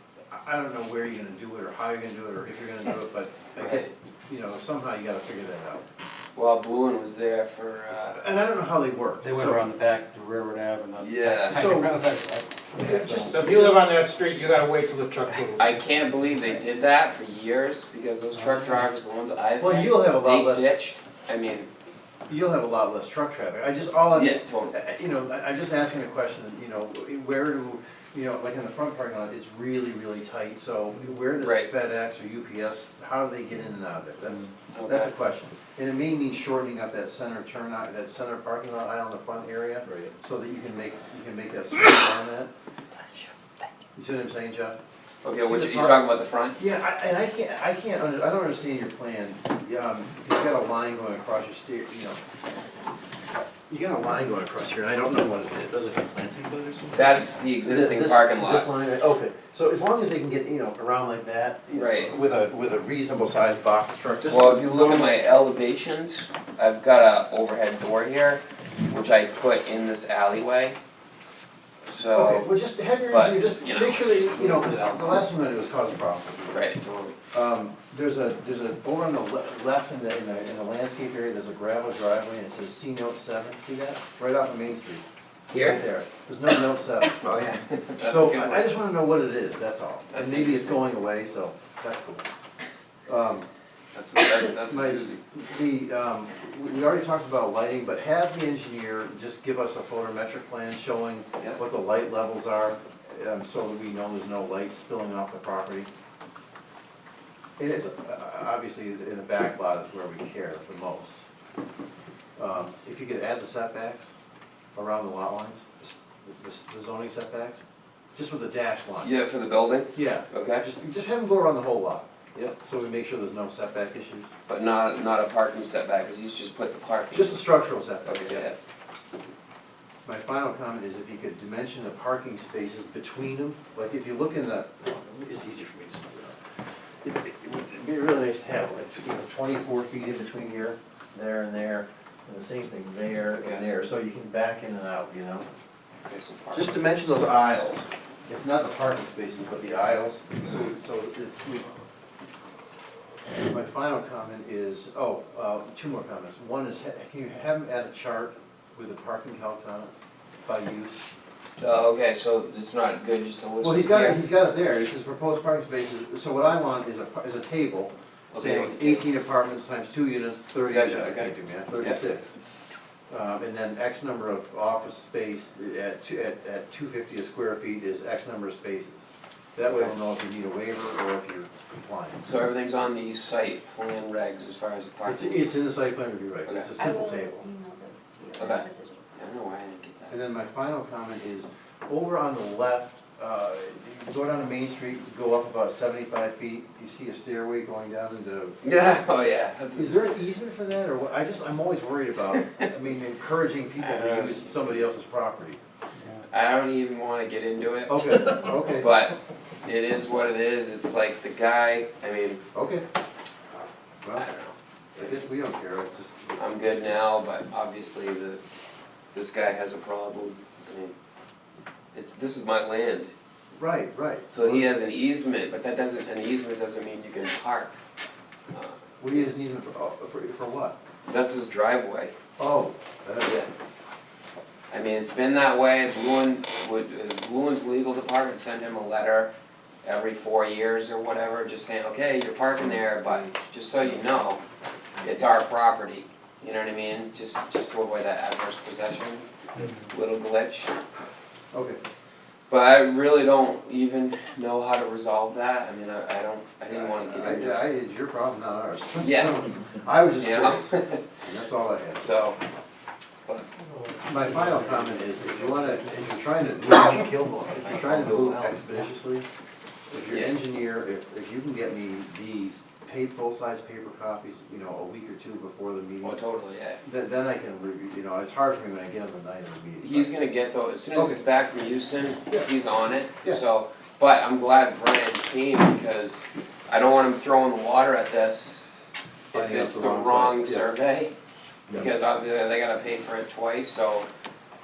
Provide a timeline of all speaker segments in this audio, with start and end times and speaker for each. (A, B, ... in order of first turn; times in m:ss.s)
0:00.3-0:05.8 A
0:03.6-0:03.9 B
0:06.4-0:08.2 B
0:08.1-0:09.6 A
0:09.2-0:13.3 C
0:10.9-0:11.4 D
0:11.0-0:11.8 B
0:11.4-0:12.0 A
0:12.7-0:13.9 A
0:13.2-0:15.8 E
0:15.6-0:21.7 B
0:19.6-0:20.7 A
0:22.3-0:42.5 A
0:24.1-0:24.8 B
0:31.4-0:31.7 B
0:34.7-0:35.1 B
0:44.0-0:44.8 A
0:45.2-0:46.6 B
0:45.4-0:52.2 A
0:53.7-1:05.2 A
0:56.9-0:58.7 B
1:01.7-1:02.2 B
1:04.2-1:10.8 B
1:11.9-1:12.5 B
1:12.0-1:16.6 A
1:13.1-1:15.3 B
1:16.5-1:17.2 B
1:17.3-1:27.2 A
1:25.5-1:25.9 B
1:27.0-1:28.8 B
1:28.0-1:32.2 A
1:30.1-1:30.9 B
1:33.1-1:33.5 A
1:33.9-1:35.2 B
1:34.6-1:45.9 A
1:47.6-1:51.2 A
1:52.4-1:54.1 A
1:54.8-1:57.6 A
1:58.1-1:59.1 A
1:59.0-2:00.6 B
1:59.9-2:02.1 A
2:02.6-2:04.3 A
2:04.5-2:07.5 B
2:07.1-2:08.5 A
2:08.0-2:08.6 B
2:10.0-2:16.4 A
2:17.0-2:25.5 A
2:23.4-2:23.9 B
2:26.1-2:26.8 B
2:26.5-2:31.7 A
2:33.4-2:39.9 A
2:40.5-2:41.1 A
2:41.6-2:44.2 B
2:43.6-2:52.4 A
2:48.3-2:49.1 B
2:50.7-2:52.0 B
2:53.1-3:02.2 A
2:59.7-3:00.0 B
3:02.2-3:05.5 B
3:05.0-3:07.5 A
3:06.5-3:06.7 B
3:06.8-3:09.0 D
3:08.4-3:10.2 B
3:10.1-3:18.6 A
3:18.6-3:20.0 B
3:19.8-3:25.6 A
3:22.3-3:23.0 B
3:23.8-3:24.8 B
3:26.3-3:32.4 B
3:27.9-3:28.9 A
3:32.5-3:32.8 A
3:34.2-3:35.3 B
3:34.9-3:36.9 A
3:36.4-3:38.4 B
3:39.1-3:40.9 B
3:41.9-3:43.1 B
3:43.6-3:44.8 A
3:44.3-3:47.7 B
3:48.5-3:49.3 B
3:49.0-3:50.8 A
3:51.1-3:52.2 B
3:52.4-3:53.4 A
3:53.2-3:53.5 B
3:54.7-3:59.3 B
3:59.8-4:04.4 B
4:05.0-4:10.7 B
4:11.5-4:11.8 A
4:12.5-4:17.6 B
4:16.7-4:22.1 A
4:19.0-4:19.4 B
4:20.2-4:21.1 B
4:21.9-4:22.4 B
4:23.7-4:24.6 C
4:24.0-4:29.2 A
4:26.9-4:28.8 B
4:29.9-4:36.2 A
4:30.1-4:30.4 B
4:36.0-4:36.8 B
4:36.8-4:40.1 A
4:39.8-4:48.6 B
4:40.9-4:41.2 A
4:49.3-4:51.1 B
4:49.3-4:50.7 A
4:51.7-4:54.1 B